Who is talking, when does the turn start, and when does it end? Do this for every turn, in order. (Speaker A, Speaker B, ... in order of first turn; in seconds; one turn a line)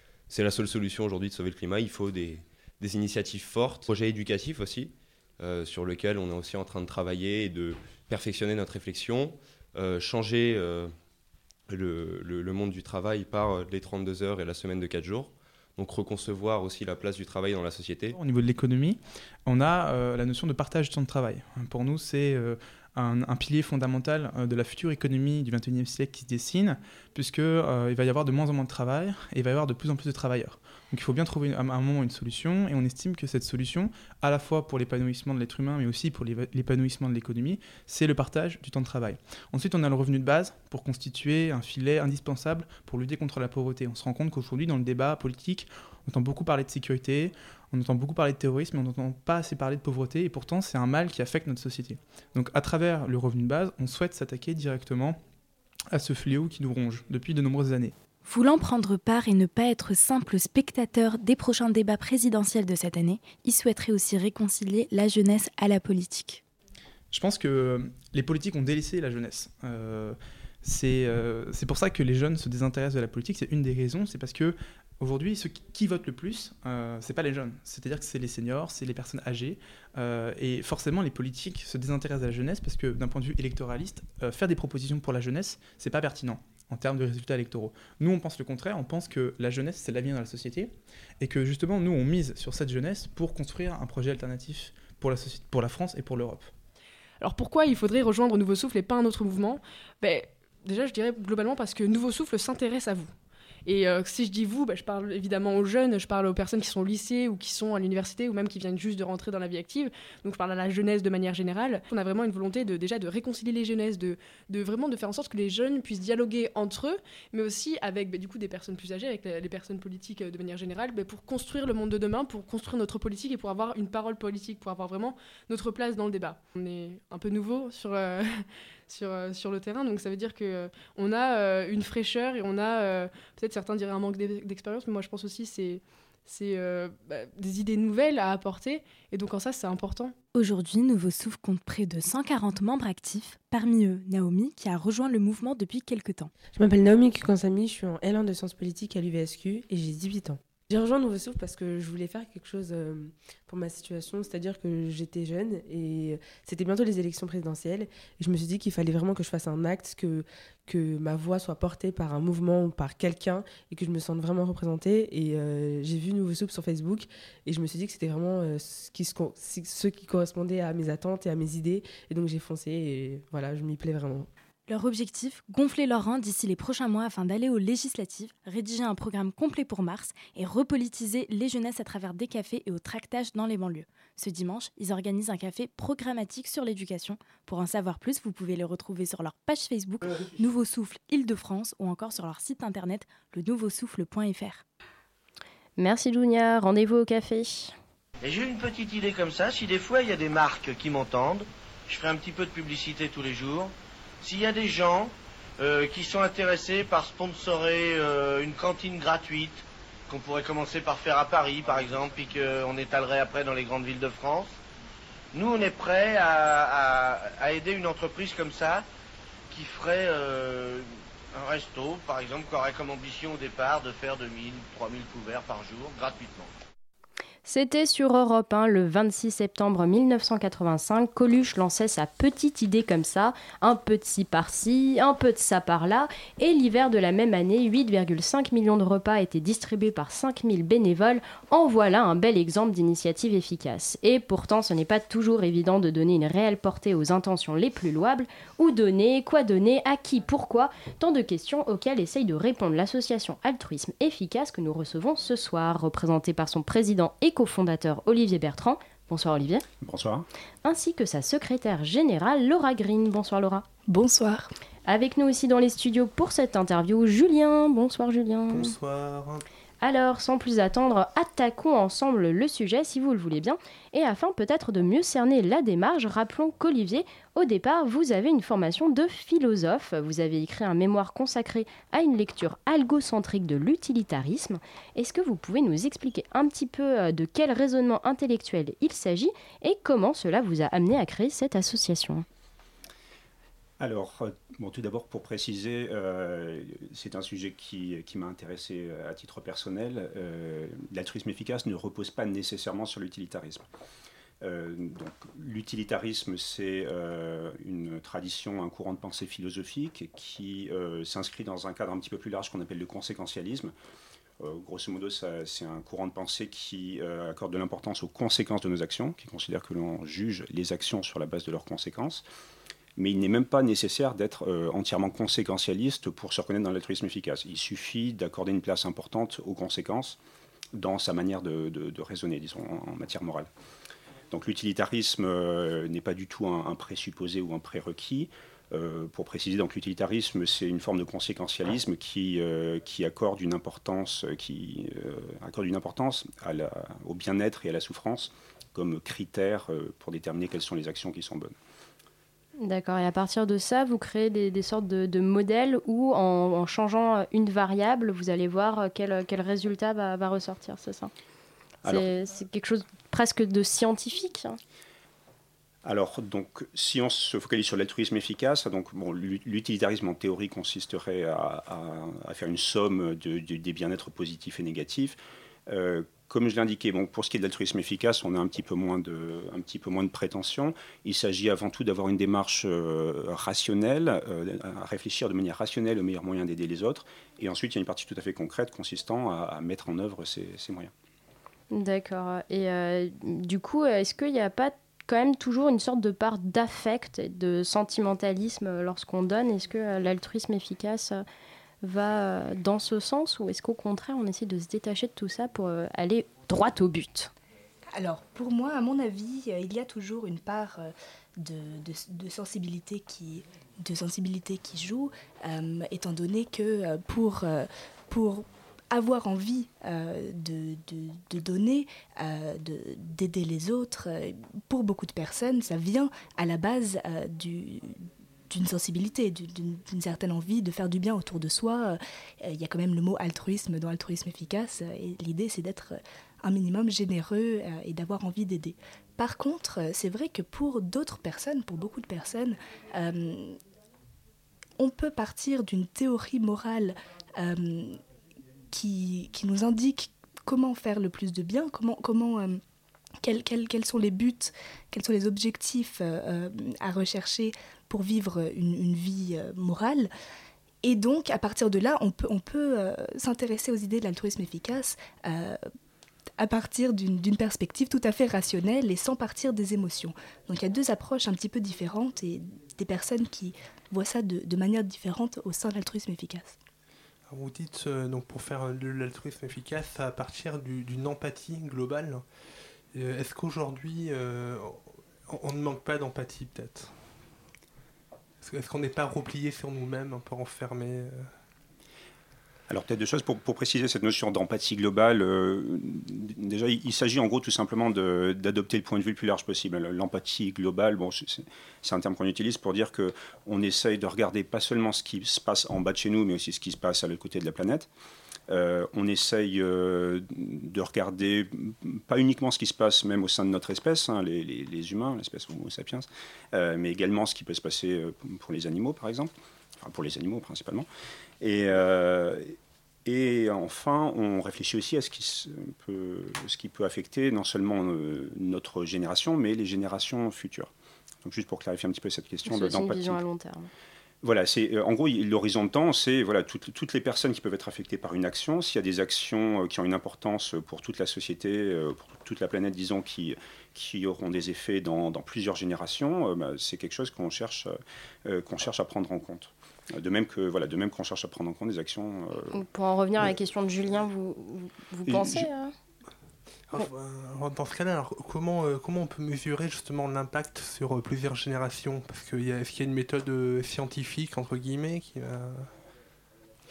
Speaker A: 0.3-10.9
Speaker A: 11.7-18.2
Speaker B: 18.2-55.2
Speaker B: 55.9-57.9
Speaker C: 58.2-66.4
Speaker B: 67.1-96.5
Speaker D: 97.2-103.1
Speaker D: 103.7-140.2
Speaker C: 140.3-146.3
Speaker E: 146.5-174.3
Speaker C: 174.7-194.6
Speaker F: 195.8-197.8
Speaker G: 198.2-214.6
Speaker G: 215.3-218.8
Speaker G: 219.5-226.5
Speaker F: 227.4-259.6
Speaker H: 259.8-260.3
Speaker F: 260.6-263.6
Speaker I: 263.9-264.5
Speaker F: 264.9-268.7
Speaker J: 268.5-269.5
Speaker F: 269.8-292.2
Speaker H: 293.8-303.6
Speaker H: 304.4-313.7
Speaker H: 314.4-322.2
Speaker H: 323.0-330.2
Speaker H: 330.8-333.5
Speaker H: 334.3-351.5
Speaker F: 352.6-361.1
Speaker H: 361.8-362.1
Speaker F: 361.9-364.6
Speaker H: 365.9-375.2
Speaker H: 375.7-390.9
Speaker F: 391.7-401.2
Speaker F: 401.8-407.3
Speaker I: 407.9-443.6
Speaker I: 444.8-448.0
Speaker I: 448.7-452.6
Speaker I: 453.2-460.1
Speaker I: 460.8-465.6
Speaker I: 466.4-476.6
Speaker J: 477.3-482.2
Speaker J: 482.9-486.9
Speaker J: 488.4-491.3
Speaker H: 492.7-507.9
Speaker H: 508.5-520.9
Speaker H: 521.4-530.7
Speaker H: 531.2-533.2
Speaker F: 532.5-533.7
Speaker H: 534.2-547.7
Speaker H: 548.3-552.6
Speaker F: 552.5-555.7
Speaker H: 555.1-555.5
Speaker J: 556.7-565.7